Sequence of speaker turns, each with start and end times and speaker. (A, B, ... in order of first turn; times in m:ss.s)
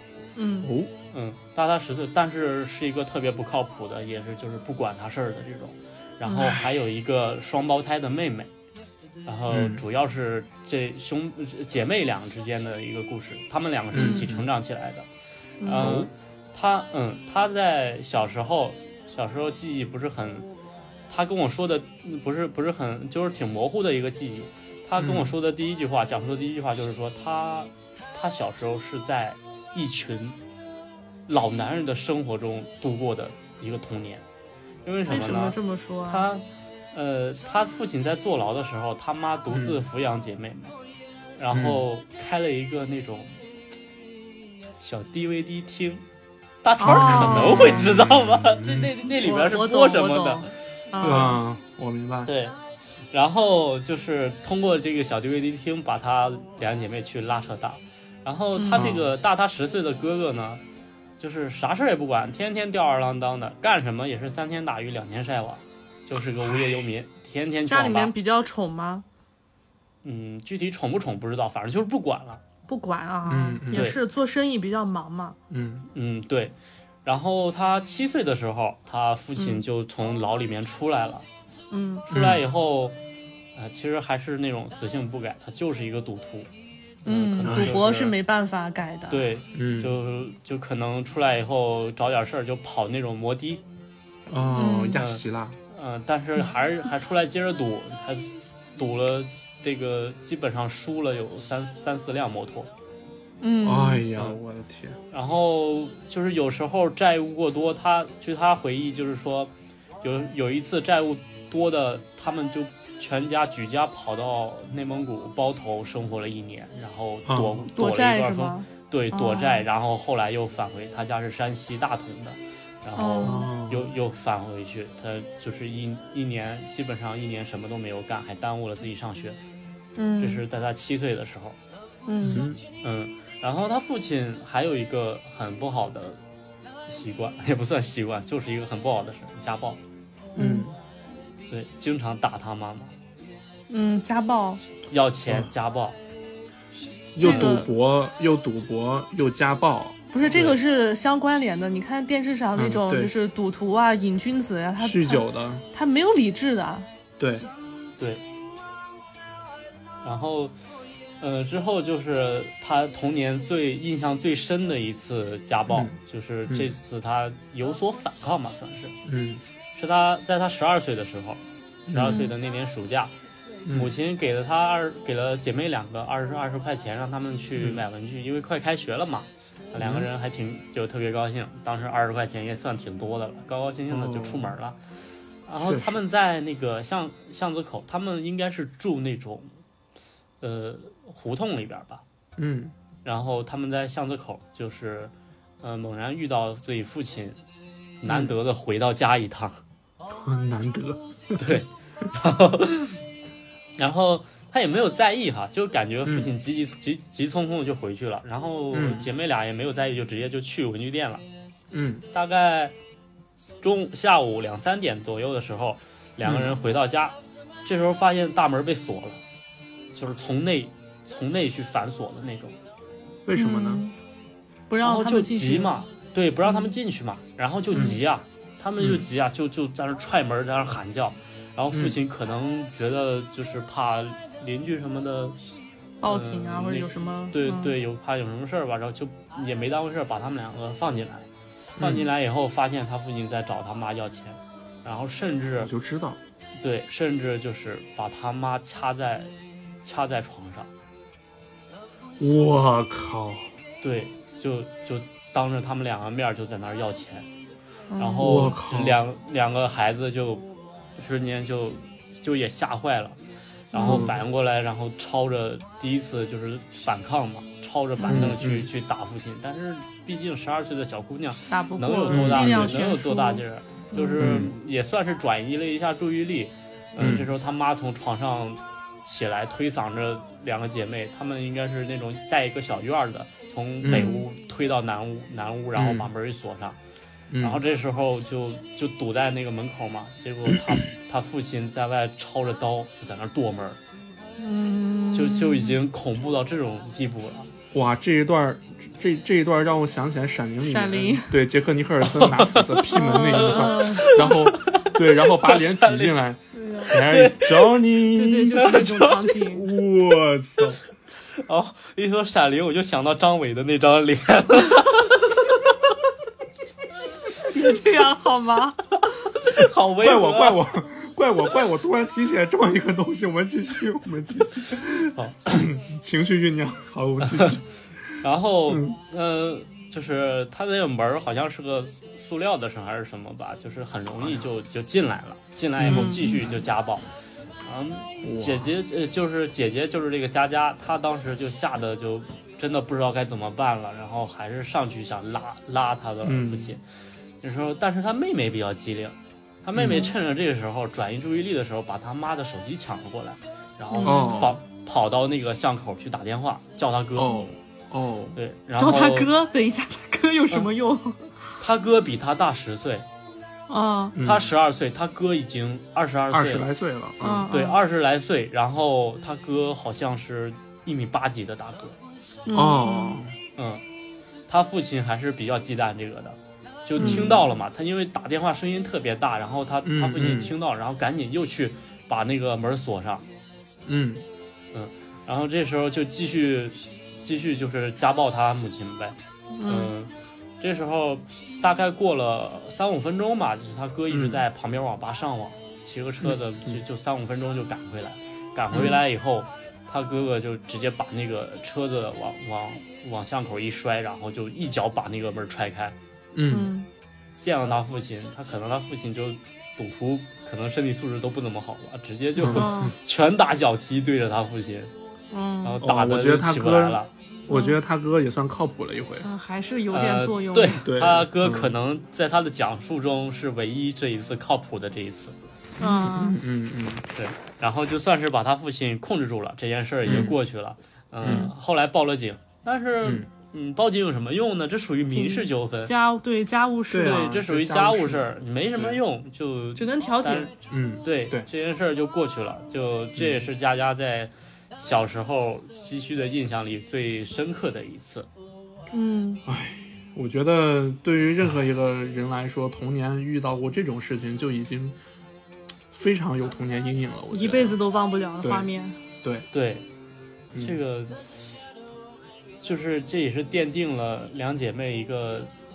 0:00.4-0:00.7 A
0:00.6-0:00.9 B
0:01.1-0:08.5 C
0:06.2-0:06.6 A
0:09.2-0:15.1 C
0:09.5-0:09.8 B
0:13.9-0:14.5 B
0:14.0-0:14.2 A
0:15.6-0:15.9 A
0:15.7-0:20.5 C
0:15.7-0:16.1 B
0:21.1-0:30.4 C
0:25.0-0:25.3 B
0:31.3-0:34.2 C
0:34.8-0:35.6 C
0:35.1-0:36.3 A
0:36.1-0:40.8 C
0:39.5-0:39.8 B
0:41.4-0:43.4 C
0:41.5-0:41.8 B
0:44.8-0:46.0 C
0:46.6-0:50.5 C
0:46.8-0:48.0 A
0:46.8-0:48.9 B
0:49.2-0:51.4 A
0:51.0-0:52.3 B
0:52.3-0:52.6 C
0:53.1-1:00.6 C
0:58.6-0:58.9 A
0:58.7-0:59.1 B
1:01.2-1:08.1 C
1:06.4-1:06.8 B
1:07.7-1:09.0 A
1:10.0-1:12.4 C
1:12.7-1:15.4 A
1:13.3-1:13.9 B
1:13.7-1:14.0 C
1:15.5-1:15.9 B
1:15.9-1:21.3 C
1:19.4-1:19.6 A
1:21.7-1:22.1 A
1:22.1-1:23.0 C
1:22.1-1:22.4 B
1:23.6-1:26.5 C
1:27.0-1:28.2 C
1:27.1-1:29.2 A
1:27.4-1:27.8 B
1:29.1-1:33.6 C
1:29.5-1:29.9 B
1:34.3-1:35.6 B
1:34.6-1:35.0 A
1:35.0-1:42.7 C
1:43.4-1:44.1 A
1:43.6-1:45.0 B
1:45.1-2:09.4 C
1:57.3-1:57.7 B
1:57.8-1:59.7 A
2:03.0-2:03.5 A
2:03.2-2:03.9 B
2:10.0-2:10.4 A
2:10.2-2:11.6 C
2:12.1-2:12.4 A
2:12.2-2:12.6 B
2:12.8-2:16.2 C
2:16.9-2:19.8 C
2:20.4-2:20.7 A
2:20.4-2:20.7 B
2:21.5-2:22.9 C
2:23.7-2:24.6 A
2:24.8-2:26.0 C
2:27.2-2:30.5 B
2:27.2-2:27.7 A
2:30.1-2:36.9 A
2:30.2-2:30.5 C
2:32.6-2:33.1 B
2:34.8-2:35.6 B
2:37.2-2:37.5 B
2:38.0-2:38.2 C
2:40.0-2:40.5 C
2:41.2-2:49.0 C
2:45.7-2:46.0 B
2:49.0-2:49.4 B
2:49.8-2:51.4 C
2:51.9-2:52.3 B
2:51.9-2:53.1 C
2:53.6-2:53.9 B
2:53.7-3:04.8 C
2:59.8-3:00.1 B
3:03.9-3:04.6 B
3:05.5-3:09.6 C
3:05.6-3:06.0 B
3:10.4-3:12.0 C
3:12.4-3:12.7 B
3:13.0-3:17.4 C
3:18.0-3:19.6 C
3:18.1-3:18.3 B
3:20.1-3:21.5 B
3:21.4-3:23.0 C
3:23.8-3:31.2 C
3:26.0-3:26.3 B
3:28.7-3:29.1 B
3:31.7-3:32.0 B
3:32.1-3:32.7 C
3:33.6-3:39.2 C
3:36.2-3:36.5 B
3:39.9-3:42.6 C
3:43.2-3:43.8 B
3:43.3-3:43.9 A
3:44.7-3:45.7 A
3:44.8-3:55.4 C
3:46.4-3:46.7 A
3:47.7-3:48.0 B
3:47.7-3:48.0 A
3:48.8-3:49.0 B
3:51.7-3:52.0 B
3:56.0-3:57.7 A
3:56.1-4:01.3 C
4:01.8-4:02.1 B
4:01.8-4:05.7 C
4:05.6-4:06.2 B
4:06.6-4:09.3 C
4:09.8-4:10.7 C
4:12.2-4:13.5 B
4:13.8-4:17.3 C
4:17.9-4:18.5 A
4:18.0-4:20.4 C
4:18.2-4:19.0 B
4:21.0-4:23.2 C
4:23.7-4:24.1 A
4:23.7-4:46.8 C
4:23.8-4:24.2 B
4:28.0-4:28.3 A
4:28.1-4:28.7 B
4:31.5-4:34.3 A
4:32.1-4:32.8 B
4:34.2-4:34.5 B
4:37.0-4:37.3 B
4:43.8-4:44.1 B
4:43.9-4:44.2 A
4:45.8-4:46.1 B
4:47.3-4:47.6 B
4:47.4-4:53.8 C
4:54.4-4:55.8 A
4:55.1-4:57.5 C
4:57.7-5:08.8 B
5:00.6-5:01.4 A
5:02.0-5:06.2 C
5:02.9-5:04.5 A
5:06.5-5:07.0 A
5:06.9-5:07.8 C
5:08.1-5:09.7 A
5:08.6-5:09.3 C
5:09.4-5:10.8 B
5:11.3-5:15.3 C
5:17.4-5:18.8 A
5:19.4-5:20.6 C
5:20.0-5:27.6 B
5:25.1-5:25.5 C
5:27.3-5:27.6 C
5:28.2-5:37.1 C
5:28.7-5:29.0 B
5:35.8-5:36.6 B
5:35.8-5:36.2 A
5:37.6-5:46.8 C
5:38.2-5:38.7 B
5:46.2-5:46.8 B
5:47.4-5:57.3 C
5:49.8-5:50.1 B
5:49.9-5:50.1 A
5:53.9-5:54.5 A
5:54.0-5:54.6 B
5:57.2-5:58.4 B
5:57.2-5:57.5 A
5:58.4-5:59.3 C
5:58.8-6:01.4 A
6:01.6-6:03.1 C
6:03.7-6:04.2 A
6:04.2-6:04.5 B
6:04.2-6:06.7 C
6:06.3-6:07.5 B
6:07.2-6:07.8 A
6:07.5-6:12.0 C
6:12.5-6:13.2 A
6:12.5-6:13.4 B
6:13.6-6:13.8 C
6:14.5-6:23.3 C
6:17.0-6:17.4 B
6:17.0-6:17.4 A
6:19.8-6:20.5 B
6:23.9-6:24.2 B
6:24.7-6:46.0 C
6:29.6-6:29.9 A
6:34.1-6:34.4 B
6:36.2-6:36.8 B
6:38.7-6:39.0 B
6:46.3-6:46.7 B
6:46.5-6:46.9 A
6:47.4-6:54.9 C
6:52.4-6:52.9 B
6:52.5-6:53.0 A
6:55.3-6:55.8 A
6:55.6-6:57.1 C
6:55.8-6:59.3 B
6:57.5-6:57.8 A
6:59.2-7:00.8 A
6:59.9-7:05.4 C
7:00.8-7:01.8 B
7:05.8-7:06.4 A
7:05.8-7:07.0 B
7:07.1-7:15.9 C
7:10.1-7:10.4 B
7:11.2-7:11.5 B
7:15.1-7:17.3 A
7:16.9-7:19.0 B
7:17.0-7:20.5 C
7:19.8-7:20.5 A
7:20.7-7:21.5 B
7:21.0-7:28.3 C
7:28.9-7:29.4 A
7:29.5-7:35.0 B
7:35.9-7:37.8 B
7:37.3-7:39.0 A
7:38.4-7:38.7 B
7:39.5-7:39.9 C
7:40.6-7:41.2 C
7:42.6-7:45.5 C